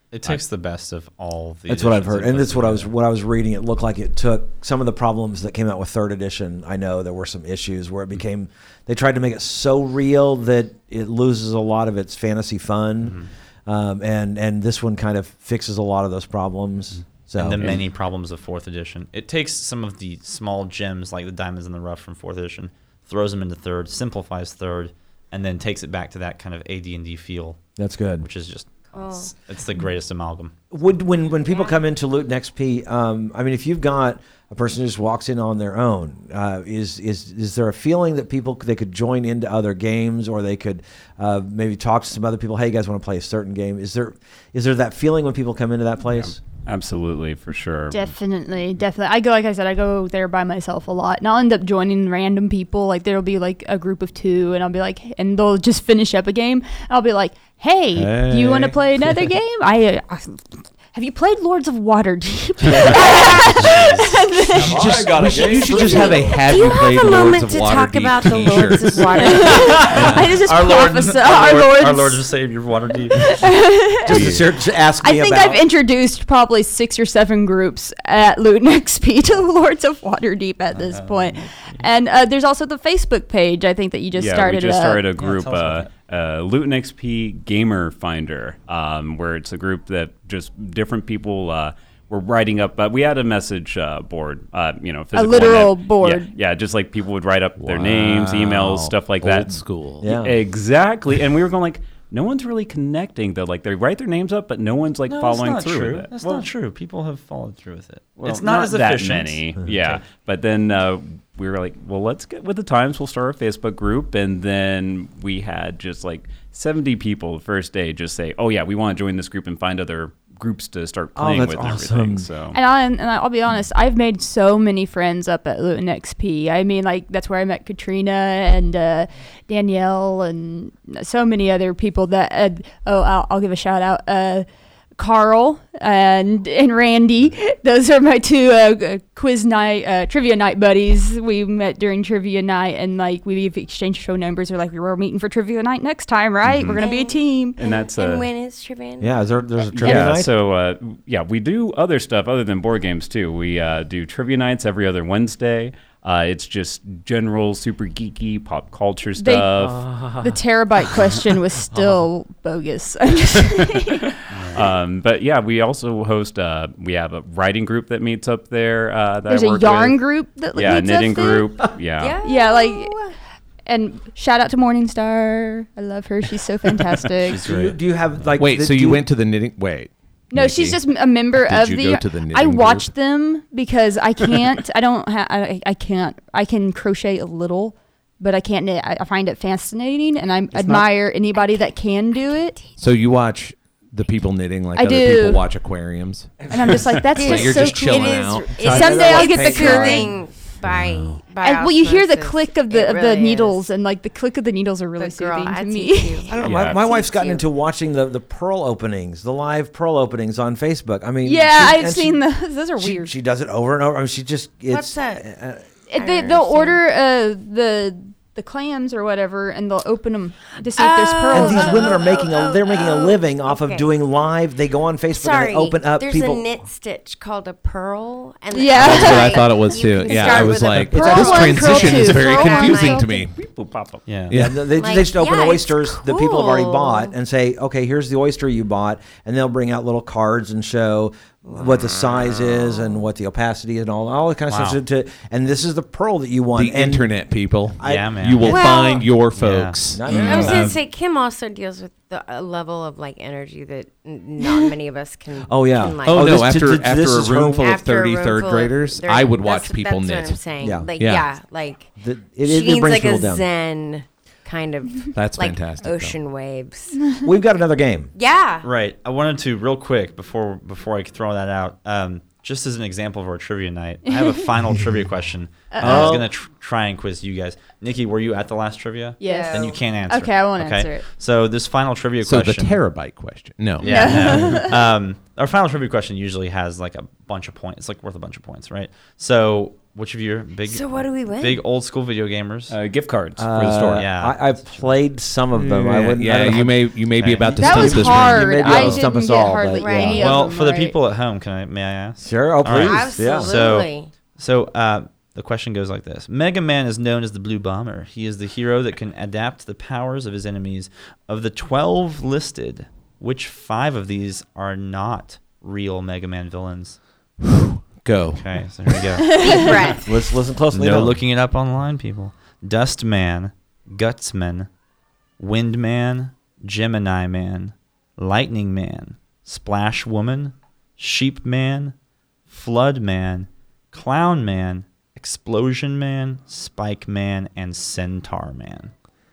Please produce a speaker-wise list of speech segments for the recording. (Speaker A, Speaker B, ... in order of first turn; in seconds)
Speaker A: 0.1-2.9, 13.0-13.3, 17.4-27.6, 28.2-30.5, 62.7-64.9, 69.6-73.4, 80.7-81.4, 85.2-85.9, 105.1-110.0, 164.3-164.7, 177.2-178.2, 234.1-234.3, 244.5-244.8, 247.8-248.7, 249.4-250.8, 268.6-282.8, 283.8-292.7, 293.8-294.9, 297.2-297.8, 300.1-317.0, 318.4-319.9, 320.7-324.7, 325.4-331.9, 332.5-338.9
Speaker B: 1.7-17.8, 27.8-28.3, 30.7-46.4, 64.5-66.4, 74.1-75.6, 100.0-100.4, 121.2-122.3, 149.0-150.3, 177.4-179.1, 198.6-200.2, 206.3-212.2, 212.8-215.7, 221.3-226.5, 230.6-231.4, 234.3-247.1, 247.8-248.7, 249.9-250.8, 255.5-257.7, 260.6-260.9, 262.0-263.4, 267.2-268.1, 275.8-276.3, 293.4-300.3, 302.2-303.6, 320.0-321.2
Speaker C: 28.9-29.3, 31.5-31.8, 65.7-70.0, 146.8-149.2, 172.0-173.2, 197.2-203.6, 205.0-207.4, 214.7-215.2, 215.9-216.8, 220.8-223.9, 225.1-233.2, 234.8-237.1, 241.5-242.9, 248.4-249.1, 250.1-256.4, 257.6-261.9, 262.4-267.1, 268.1-268.7, 279.2-279.7, 290.7-291.6, 299.7-300.4, 302.7-304.1, 319.3-320.1
Speaker D: 46.1-48.1, 74.1-74.5, 84.2-106.5, 108.2-122.6, 146.5-146.8, 147.6-148.3, 149.7-160.4, 164.5-172.2, 206.4-206.8, 233.3-234.2, 292.7-294.1
Speaker E: 47.9-64.8, 69.2-72.2, 73.1-74.3, 75.0-85.0, 95.1-96.3, 122.5-134.5, 135.0-147.6, 159.2-164.2, 169.3-171.6, 172.2-173.0, 173.7-177.4, 180.3-192.6, 194.8-195.4, 196.5-200.1, 201.4-206.3, 211.2-213.1, 215.9-222.0, 228.5-229.5, 230.9-233.2, 274.1-274.4, 275.7-276.2, 279.2-281.1, 283.8-284.8, 297.6-301.0, 319.2-319.7
Speaker F: 58.0-58.8, 64.6-69.4, 69.9-70.2, 97.6-100.2, 178.4-182.9, 192.8-196.6, 197.1-198.7, 200.7-201.2, 228.7-233.4, 234.3-234.8, 246.6-250.7, 256.1-260.4, 261.0-261.3, 265.1-266.2, 282.2-284.1, 295.6-298.9, 317.4-318.9